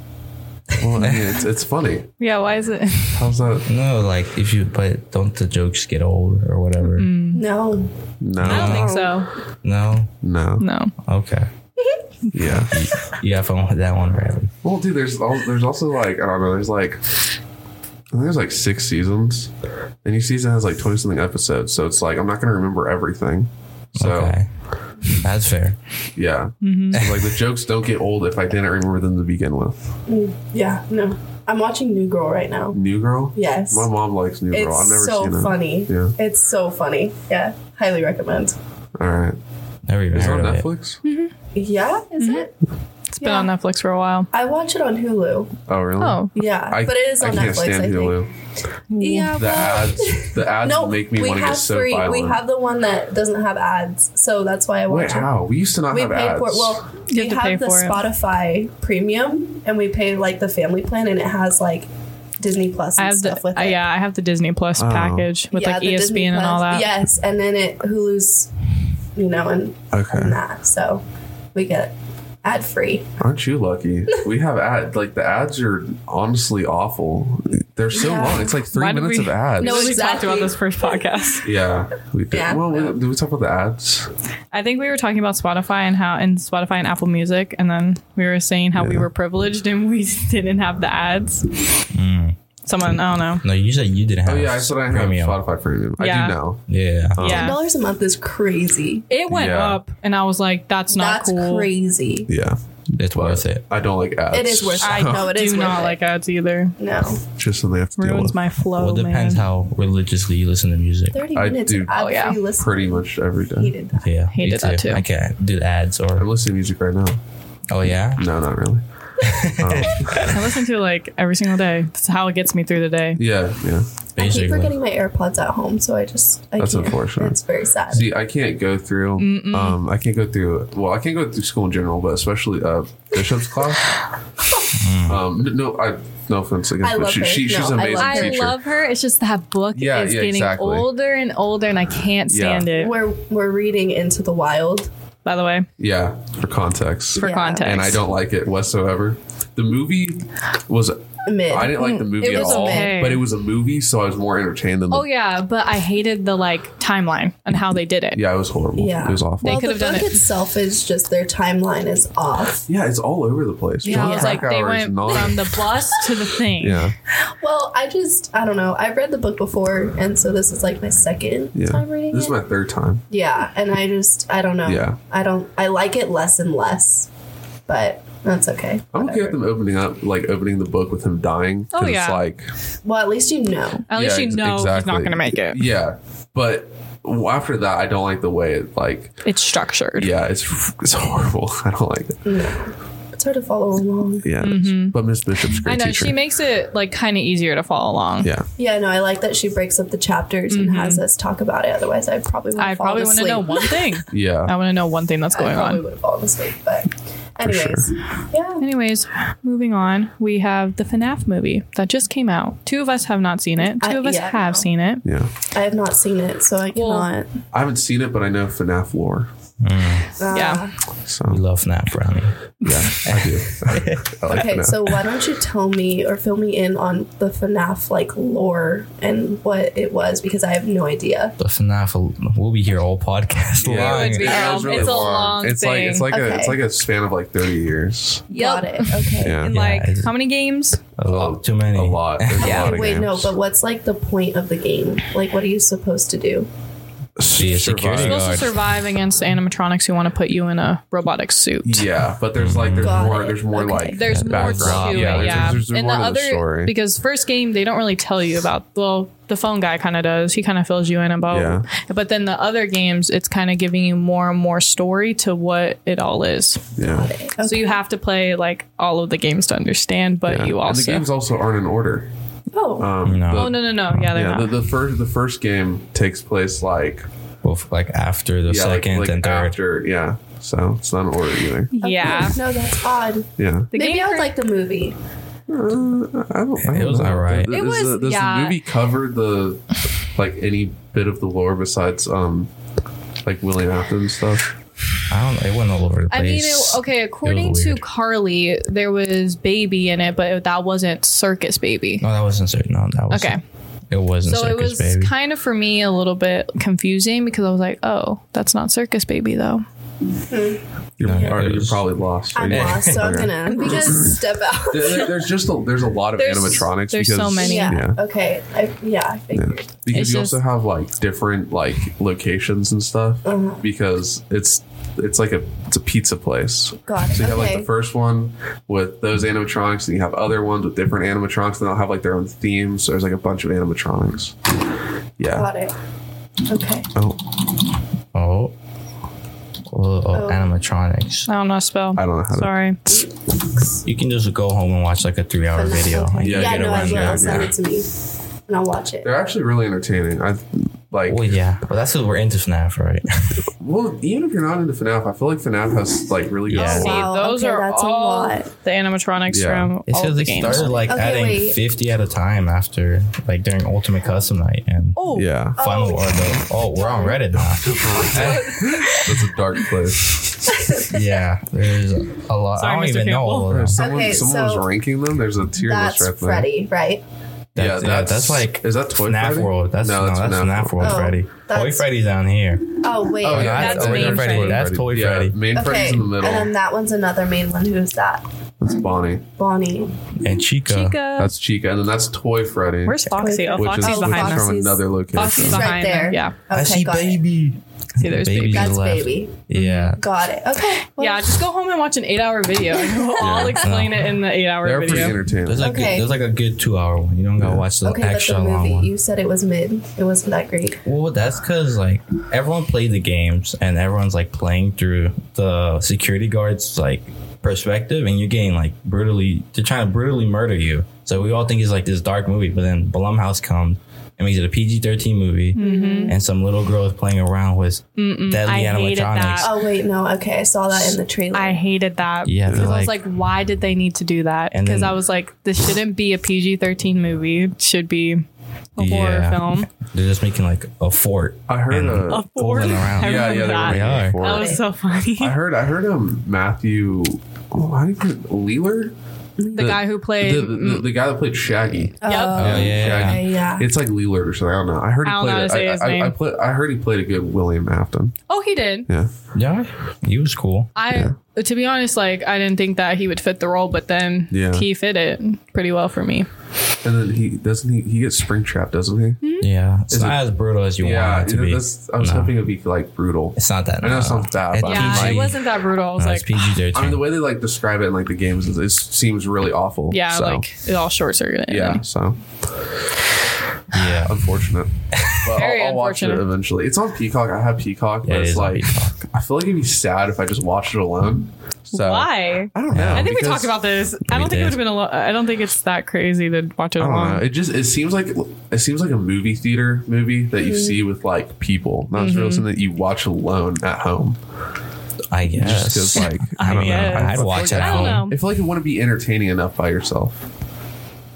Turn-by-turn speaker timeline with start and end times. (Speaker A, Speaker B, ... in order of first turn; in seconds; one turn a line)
Speaker A: 0.8-2.1
Speaker B: 1.0-1.3
Speaker C: 2.2-3.3
Speaker A: 3.1-3.6
Speaker B: 3.6-7.1
Speaker C: 6.8-7.4
Speaker D: 7.3-7.9
Speaker A: 8.2-9.0
Speaker B: 8.4-8.9
Speaker C: 8.4-9.3
Speaker D: 8.7-9.0
Speaker B: 9.6-10.1
Speaker A: 10.2-10.7
Speaker C: 10.6-10.9
Speaker B: 11.0-11.5
Speaker A: 12.3-12.7
Speaker B: 12.7-14.5
Speaker A: 14.6-17.0
Speaker A: 18.1-19.5
Speaker A: 20.0-24.3
Speaker B: 23.9-24.5
Speaker B: 25.2-25.8
Speaker A: 26.1-29.8
Speaker C: 26.6-27.0
Speaker B: 26.9-27.3
Speaker D: 30.1-32.8
Speaker A: 32.7-36.1
Speaker D: 33.3-33.9
Speaker D: 34.5-38.5
Speaker A: 39.0-39.4
Speaker B: 39.9-40.7
Speaker A: 40.1-41.0
Speaker C: 41.0-41.3
Speaker D: 41.5-42.5
Speaker C: 42.2-42.5
Speaker C: 43.1-44.3
Speaker D: 43.2-43.5
Speaker D: 44.3-45.5
Speaker A: 45.7-48.3
Speaker C: 46.0-46.3
Speaker D: 46.3-48.2
Speaker C: 48.9-49.7
Speaker D: 49.0-55.3
Speaker A: 49.3-52.4
Speaker A: 54.9-56.8
Speaker D: 55.9-63.8
Speaker C: 57.1-58.1
Speaker C: 63.0-66.9
Speaker A: 64.8-65.3
Speaker D: 65.5-68.5
Speaker D: 69.1-71.0
Speaker A: 69.9-70.4
Speaker D: 71.5-73.1
Speaker A: 73.2-79.9
Speaker D: 77.9-78.5
Speaker C: 78.5-81.5
Speaker D: 79.6-80.9
Speaker A: 81.4-84.1
Speaker D: 82.3-82.9
Speaker C: 84.5-91.5
Speaker A: 88.8-89.1
Speaker B: 91.9-95.3
Speaker C: 92.7-93.4
Speaker A: 94.2-96.6
Speaker C: 96.0-96.4
Speaker B: 96.7-97.2
Speaker A: 97.1-97.6
Speaker C: 97.2-97.6
Speaker D: 97.2-99.1
Speaker C: 99.1-101.7
Speaker A: 99.3-99.8
Speaker D: 100.9-102.3
Speaker A: 102.3-105.3
Speaker B: 103.0-103.6
Speaker D: 104.3-106.0
Speaker C: 104.8-106.7
Speaker D: 106.8-107.2
Speaker A: 107.3-108.4
Speaker C: 108.0-109.4
Speaker B: 108.8-111.2
Speaker D: 111.1-114.1
Speaker A: 111.3-113.7
Speaker C: 111.9-112.4
Speaker B: 114.0-116.3
Speaker C: 114.3-115.0
Speaker A: 116.2-117.2
Speaker B: 117.7-118.2
Speaker A: 118.2-118.8
Speaker B: 119.2-120.5
Speaker A: 119.4-120.3
Speaker C: 120.2-123.2
Speaker A: 123.2-123.9
Speaker B: 124.2-124.7
Speaker D: 124.2-128.1
Speaker A: 126.6-127.4
Speaker A: 127.9-133.9
Speaker C: 129.2-129.8
Speaker B: 134.7-135.2
Speaker A: 135.0-138.6
Speaker D: 136.8-138.5
Speaker C: 137.9-142.9
Speaker A: 139.7-140.9
Speaker A: 142.3-142.7
Speaker D: 142.7-144.9
Speaker C: 145.2-145.7
Speaker A: 145.8-155.1
Speaker C: 147.2-148.0
Speaker D: 147.2-147.7
Speaker D: 151.2-153.0
Speaker C: 151.8-153.2
Speaker C: 154.9-158.2
Speaker A: 158.1-159.6
Speaker D: 158.8-162.6
Speaker C: 159.4-160.1
Speaker A: 162.7-165.5
Speaker D: 163.8-164.4
Speaker C: 163.8-166.9
Speaker A: 166.6-166.9
Speaker D: 167.4-172.3
Speaker A: 171.5-173.0
Speaker D: 173.1-177.1
Speaker A: 174.6-175.0
Speaker D: 177.7-179.4
Speaker A: 178.9-182.5
Speaker C: 181.7-182.2
Speaker D: 182.8-183.8
Speaker C: 183.9-185.6
Speaker A: 183.9-189.1
Speaker C: 189.2-190.1
Speaker A: 190.0-192.3
Speaker D: 192.2-194.2
Speaker A: 194.2-196.2
Speaker C: 194.4-195.0
Speaker C: 195.6-198.3
Speaker A: 198.2-198.5
Speaker D: 198.6-203.8
Speaker C: 200.5-201.0
Speaker C: 202.6-205.8
Speaker A: 204.1-204.5
Speaker D: 205.3-208.6
Speaker A: 207.4-207.9
Speaker C: 208.6-215.0
Speaker D: 213.6-214.7
Speaker A: 215.0-215.3
Speaker D: 215.5-217.3
Speaker C: 216.7-217.1
Speaker A: 217.5-219.3
Speaker B: 219.6-220.1
Speaker D: 220.2-220.7
Speaker C: 220.3-220.7
Speaker A: 221.0-221.4
Speaker B: 221.3-224.1
Speaker A: 222.6-224.8
Speaker D: 224.3-231.3
Speaker B: 231.4-234.9
Speaker A: 233.6-238.3
Speaker C: 233.7-236.1
Speaker D: 236.1-236.6
Speaker D: 238.3-239.4
Speaker C: 238.3-240.8
Speaker A: 239.2-239.5
Speaker B: 239.5-240.1
Speaker B: 241.0-243.2
Speaker A: 241.0-243.3
Speaker D: 242.4-246.5
Speaker C: 242.4-242.8
Speaker A: 247.2-248.4
Speaker B: 247.3-248.6
Speaker C: 247.9-251.8
Speaker A: 251.6-256.7
Speaker B: 252.4-253.2
Speaker D: 252.8-254.1
Speaker C: 253.9-266.7
Speaker B: 254.1-255.6
Speaker A: 261.3-261.6
Speaker A: 266.8-267.1
Speaker D: 266.8-267.8
Speaker C: 267.4-271.1
Speaker A: 270.3-272.1
Speaker D: 272.5-272.9
Speaker A: 272.8-277.1
Speaker B: 273.0-274.1
Speaker C: 273.3-274.5
Speaker B: 277.4-279.6
Speaker A: 278.5-281.7
Speaker C: 281.7-282.4
Speaker D: 281.8-284.9
Speaker A: 283.4-283.7
Speaker C: 283.7-284.3
Speaker A: 285.5-292.5
Speaker B: 286.6-287.6
Speaker C: 287.5-288.6
Speaker A: 293.2-294.5
Speaker B: 295.1-297.8
Speaker C: 296.1-302.0
Speaker B: 302.0-303.4
Speaker C: 303.1-303.4
Speaker B: 303.9-305.1
Speaker C: 304.2-309.6
Speaker D: 310.3-311.4
Speaker A: 311.0-318.0
Speaker B: 311.0-311.9
Speaker D: 312.3-315.2
Speaker B: 312.4-313.3
Speaker C: 313.5-314.0
Speaker C: 316.2-317.8
Speaker D: 317.4-319.7
Speaker A: 319.3-334.4
Speaker C: 319.9-320.4
Speaker D: 323.2-323.6
Speaker D: 326.9-327.7
Speaker A: 335.2-335.5
Speaker D: 335.3-335.7
Speaker D: 336.4-336.9
Speaker A: 336.9-337.2
Speaker B: 338.1-338.5
Speaker B: 339.7-341.3
Speaker D: 340.1-340.5
Speaker C: 341.3-343.0
Speaker A: 341.9-342.5
Speaker D: 342.9-343.8
Speaker B: 343.8-347.5
Speaker D: 345.5-347.9
Speaker A: 346.2-347.5
Speaker D: 348.5-349.1
Speaker A: 349.0-351.2
Speaker B: 351.1-353.4
Speaker A: 353.6-357.1
Speaker B: 356.5-356.9
Speaker C: 356.5-360.8
Speaker D: 356.6-358.5
Speaker A: 359.3-359.7
Speaker B: 359.9-368.5
Speaker D: 360.4-361.6
Speaker C: 364.9-365.3
Speaker A: 365.1-365.6
Speaker D: 365.6-369.1
Speaker A: 367.6-370.1
Speaker C: 368.6-369.0
Speaker D: 370.5-371.1
Speaker B: 370.9-373.8
Speaker C: 372.6-373.5
Speaker A: 373.5-376.5
Speaker D: 373.7-374.7
Speaker D: 375.6-377.0
Speaker A: 377.5-381.0
Speaker B: 377.5-385.4
Speaker D: 380.8-381.9
Speaker D: 382.8-384.0
Speaker A: 383.2-386.5
Speaker C: 383.5-384.6
Speaker D: 385.5-388.2
Speaker A: 388.6-389.2
Speaker D: 389.4-389.9
Speaker B: 390.2-391.0
Speaker C: 390.6-391.3
Speaker A: 391.1-395.7
Speaker C: 392.9-394.6
Speaker D: 393.1-397.2
Speaker C: 395.1-396.3
Speaker B: 396.5-400.0
Speaker C: 398.0-398.8
Speaker D: 398.5-399.4
Speaker C: 399.5-400.0
Speaker D: 399.9-401.4
Speaker C: 401.0-405.2
Speaker D: 402.9-403.4
Speaker A: 403.2-403.6
Speaker B: 403.6-404.1
Speaker A: 404.6-405.7
Speaker B: 404.9-408.9
Speaker D: 405.6-406.1
Speaker A: 407.4-407.6
Speaker D: 407.8-410.8
Speaker B: 410.8-429.5
Speaker C: 425.5-426.1
Speaker D: 425.6-426.2
Speaker C: 428.0-429.5
Speaker D: 429.4-431.6
Speaker C: 430.7-438.2
Speaker B: 432.2-432.9
Speaker A: 432.5-432.7
Speaker B: 434.5-435.0
Speaker C: 438.8-439.7
Speaker B: 438.8-444.2
Speaker A: 441.5-442.3
Speaker C: 442.1-445.3
Speaker A: 443.0-444.6
Speaker D: 444.2-444.6
Speaker A: 445.1-448.9
Speaker D: 449.4-449.7
Speaker C: 449.5-450.9
Speaker A: 449.5-458.1
Speaker C: 452.0-452.7
Speaker D: 452.0-453.7
Speaker B: 452.4-453.2
Speaker C: 455.0-456.1
Speaker C: 458.3-458.9
Speaker B: 459.3-460.7
Speaker C: 460.8-466.3
Speaker A: 460.9-461.1
Speaker A: 464.3-464.6
Speaker A: 466.8-469.2
Speaker C: 469.2-469.5
Speaker B: 469.4-472.4
Speaker A: 469.9-470.2
Speaker A: 470.8-475.3
Speaker B: 473.4-475.4
Speaker C: 474.6-476.5
Speaker B: 475.9-477.1
Speaker A: 476.7-480.5
Speaker C: 479.9-481.8
Speaker A: 481.5-482.7
Speaker B: 483.7-484.3
Speaker A: 483.8-493.6
Speaker B: 484.9-485.3
Speaker C: 485.3-486.2
Speaker B: 488.0-489.0
Speaker C: 491.7-497.2
Speaker B: 492.7-493.1
Speaker B: 494.1-494.6
Speaker A: 496.8-504.2
Speaker D: 500.4-500.8
Speaker C: 501.9-502.4
Speaker B: 505.1-508.1
Speaker A: 505.3-510.2
Speaker C: 505.9-508.1